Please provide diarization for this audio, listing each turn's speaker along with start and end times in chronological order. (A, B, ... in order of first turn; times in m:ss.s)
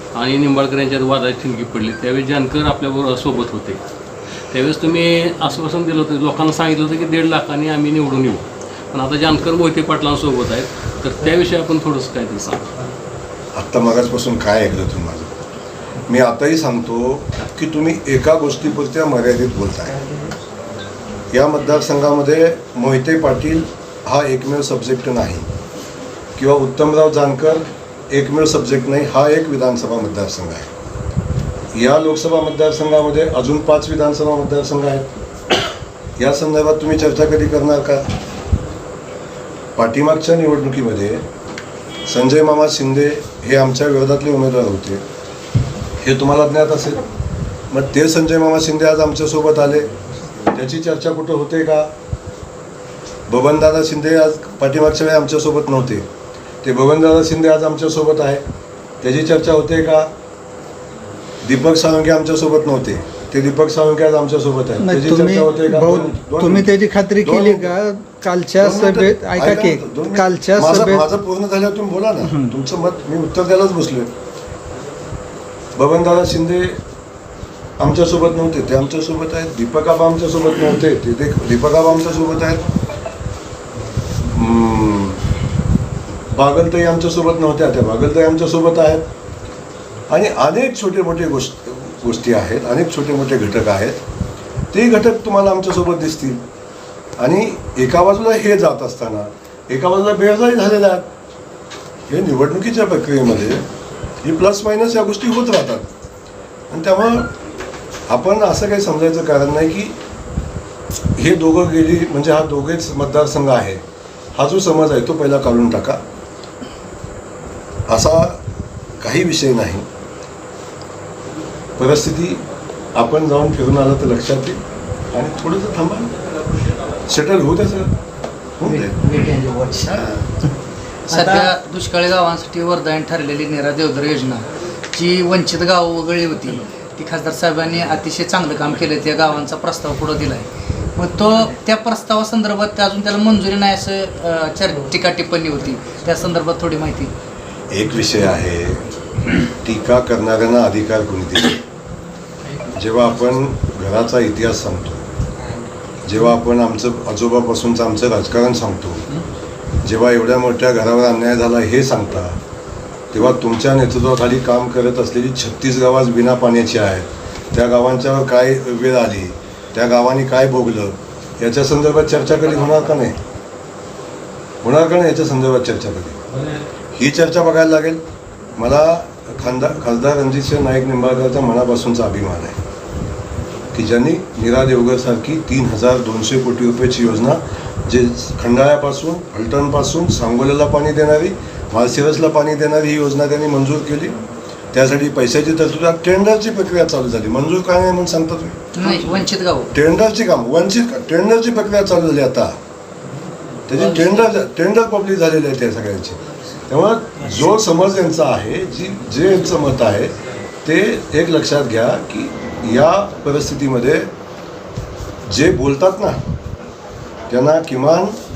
0:00.1-0:03.8 A
0:04.5-0:12.7 A
0:13.5-0:15.4 B
0:16.1-0:20.1 B
0:21.3-0:25.5 B
0:26.4-0:30.7 B
0:31.7-0:35.1 B
0:36.2-0:38.1 B
0:39.8-0:41.2 B
0:42.1-0:45.0 B
0:46.0-0:47.0 B
0:47.7-0:49.9 B
0:50.5-0:51.9 B
0:53.3-0:56.1 B
0:56.6-0:58.4 B
0:59.0-1:00.1 B
1:01.4-1:06.7 B
1:04.8-1:11.1 C
1:07.2-1:07.7 B
1:08.6-1:14.1 B
1:12.2-1:12.5 C
1:15.8-1:16.8 B
1:17.8-1:22.6 B
1:24.2-1:25.2 B
1:26.3-1:29.0 B
1:30.1-1:34.0 B
1:34.7-1:36.4 B
1:37.2-1:41.1 B
1:42.1-1:43.7 B
1:44.2-1:45.9 B
1:46.7-1:47.3 B
1:48.1-1:50.0 B
1:51.2-1:53.8 B
1:54.4-1:56.0 B
1:57.9-1:58.4 B
1:59.0-1:59.8 B
2:01.8-2:02.4 B
2:03.0-2:04.6 B
2:05.1-2:06.1 B
2:07.1-2:07.9 B
2:08.6-2:09.0 B
2:08.7-2:10.0 C
2:09.9-2:10.3 B
2:11.1-2:27.1 D
2:11.1-2:11.5 C
2:27.7-2:28.8 B
2:29.6-2:31.6 B
2:32.7-2:35.0 B
2:36.0-2:39.1 B
2:39.8-2:42.4 B
2:43.1-2:53.2 B
2:54.6-2:56.2 B
2:57.0-2:58.0 B
2:58.6-3:02.6 B
3:03.7-3:14.2 B
3:14.7-3:18.6 B
3:18.8-3:19.7 D
3:19.7-3:22.6 B
3:23.7-3:34.1 B
3:35.3-3:36.2 B
3:37.3-3:38.2 B